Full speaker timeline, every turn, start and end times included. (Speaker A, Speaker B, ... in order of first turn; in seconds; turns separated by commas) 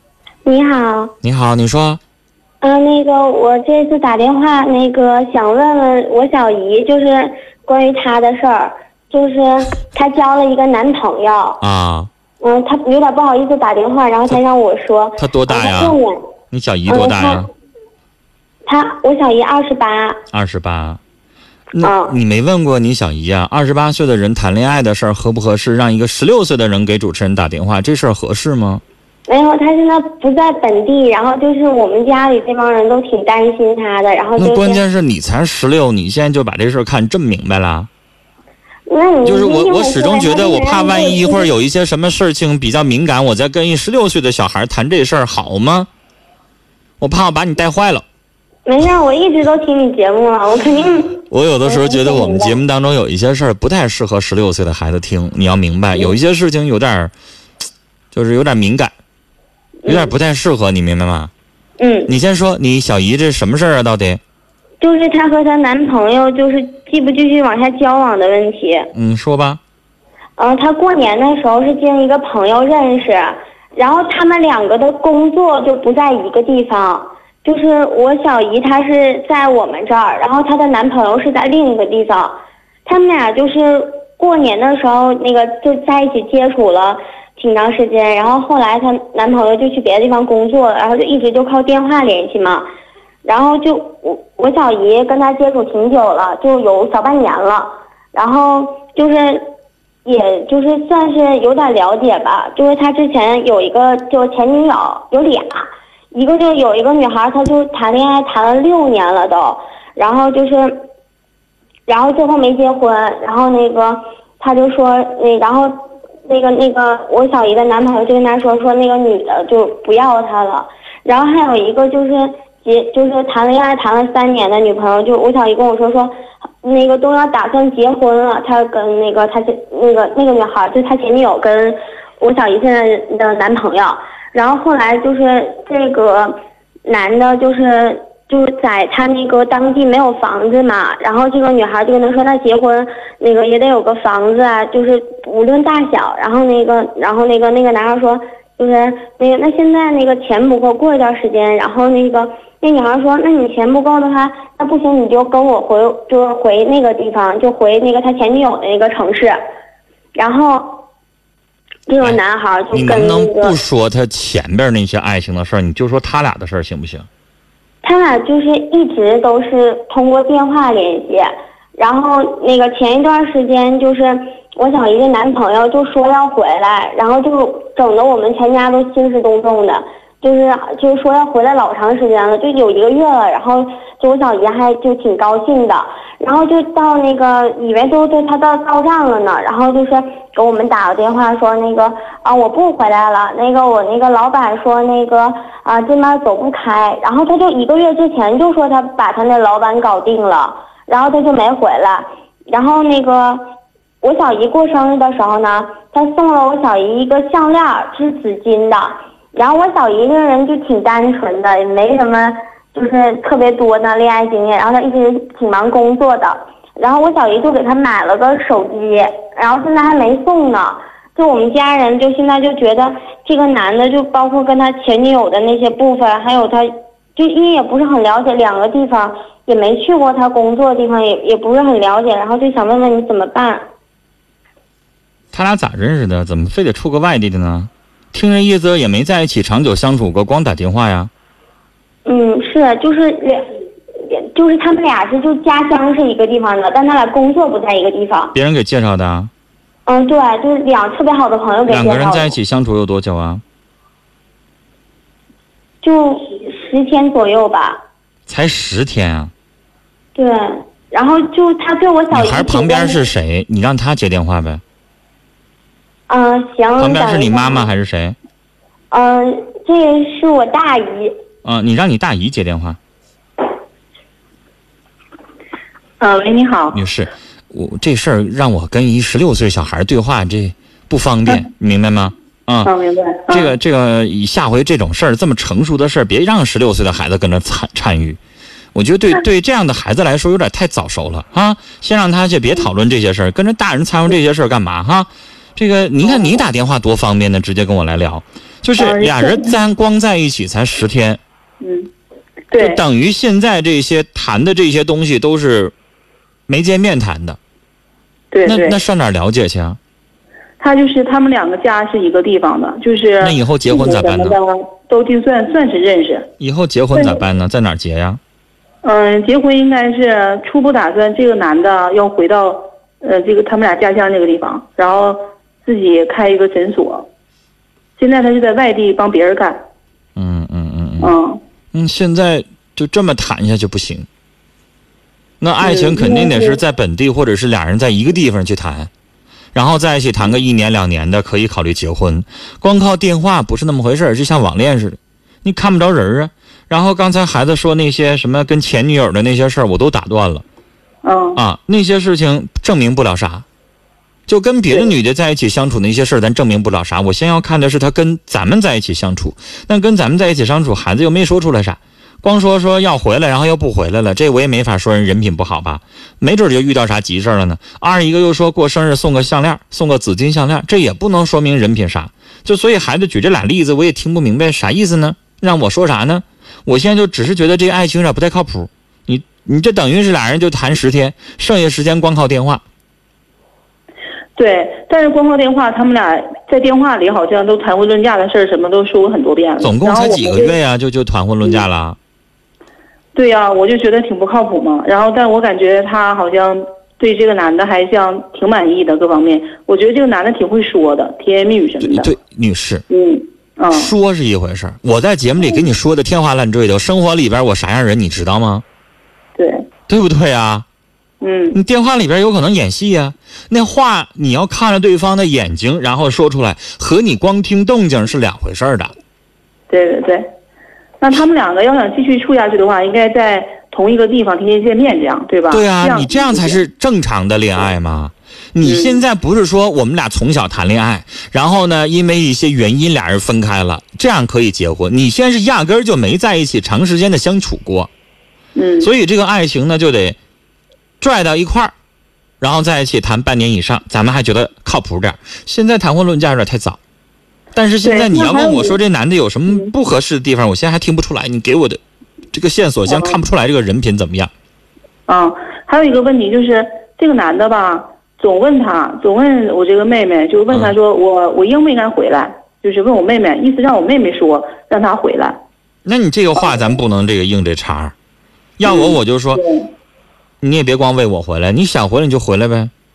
Speaker A: 0.5-1.1, Speaker B: 1.2-2.0, Speaker A: 2.6-11.6, Speaker B: 11.6-12.1, Speaker A: 12.4-16.2, Speaker B: 15.2-16.0, Speaker B: 16.5-17.5, Speaker A: 16.9-17.4, Speaker A: 18.7-20.2, Speaker B: 20.3-21.0, Speaker B: 21.7-28.8, Speaker A: 21.8-22.2, Speaker A: 29.3-34.8, Speaker B: 34.4-37.9, Speaker A: 38.9-41.5, Speaker B: 39.2-45.9, Speaker B: 47.0-48.0, Speaker A: 48.7-52.6, Speaker B: 51.3-57.1, Speaker B: 58.1-58.9, Speaker A: 59.8-60.1, Speaker B: 59.9-61.3, Speaker A: 61.8-62.1, Speaker B: 62.1-64.2, Speaker A: 64.8-68.9, Speaker B: 69.0-69.6, Speaker A: 70.4-82.3, Speaker A: 82.9-92.7, Speaker A: 93.2-99.5, Speaker A: 100.0-110.8, Speaker A: 111.9-115.8, Speaker A: 116.3-136.3, Speaker A: 136.9-159.4, Speaker A: 160.2-160.9, Speaker A: 161.9-163.6, Speaker B: 162.7-167.1, Speaker A: 167.8-203.4, Speaker A: 204.0-233.7, Speaker B: 235.3-241.1, Speaker A: 242.1-243.5, Speaker A: 244.0-248.3, Speaker B: 248.3-249.3, Speaker A: 249.9-252.4, Speaker B: 251.7-253.4, Speaker A: 255.8-257.8, Speaker B: 258.3-259.3, Speaker A: 260.1-263.0, Speaker B: 262.1-264.6, Speaker A: 266.1-267.7, Speaker B: 266.8-268.2, Speaker A: 268.9-271.1, Speaker B: 271.4-272.8, Speaker C: 276.0-276.8, Speaker B: 276.7-282.7, Speaker C: 282.6-283.5, Speaker B: 283.3-288.2, Speaker B: 288.8-301.2, Speaker C: 296.1-296.4, Speaker C: 298.8-299.6, Speaker C: 301.6-301.9, Speaker C: 302.5-302.8, Speaker B: 302.6-305.7, Speaker B: 306.5-307.4, Speaker C: 308.3-308.8, Speaker B: 308.4-309.8, Speaker C: 310.6-316.3, Speaker B: 313.2-314.4, Speaker B: 316.4-318.2, Speaker C: 317.0-317.2, Speaker C: 318.8-327.1, Speaker C: 328.0-329.6, Speaker B: 330.2-331.1, Speaker C: 331.0-331.4, Speaker B: 331.7-334.1, Speaker B: 335.4-338.9, Speaker C: 335.6-336.6, Speaker B: 339.5-350.4, Speaker C: 351.0-351.4, Speaker B: 351.4-353.4, Speaker B: 354.3-382.6, Speaker C: 384.4-390.6, Speaker B: 389.6-392.0, Speaker C: 393.1-402.1, Speaker B: 401.8-402.9, Speaker C: 402.9-403.9, Speaker B: 403.7-408.6, Speaker C: 409.4-409.6, Speaker B: 409.9-410.6, Speaker C: 411.2-411.6, Speaker B: 411.5-418.9, Speaker C: 419.7-420.3, Speaker C: 421.0-426.6, Speaker B: 425.5-437.9, Speaker C: 428.6-429.0, Speaker C: 438.6-438.9, Speaker B: 438.8-440.2, Speaker B: 441.0-441.7, Speaker B: 442.4-446.8, Speaker B: 447.6-451.8, Speaker C: 447.8-448.8, Speaker B: 452.3-454.3, Speaker C: 452.9-453.2, Speaker C: 455.1-465.4, Speaker B: 465.9-467.9, Speaker B: 468.6-469.4, Speaker C: 468.6-469.7, Speaker B: 470.4-472.7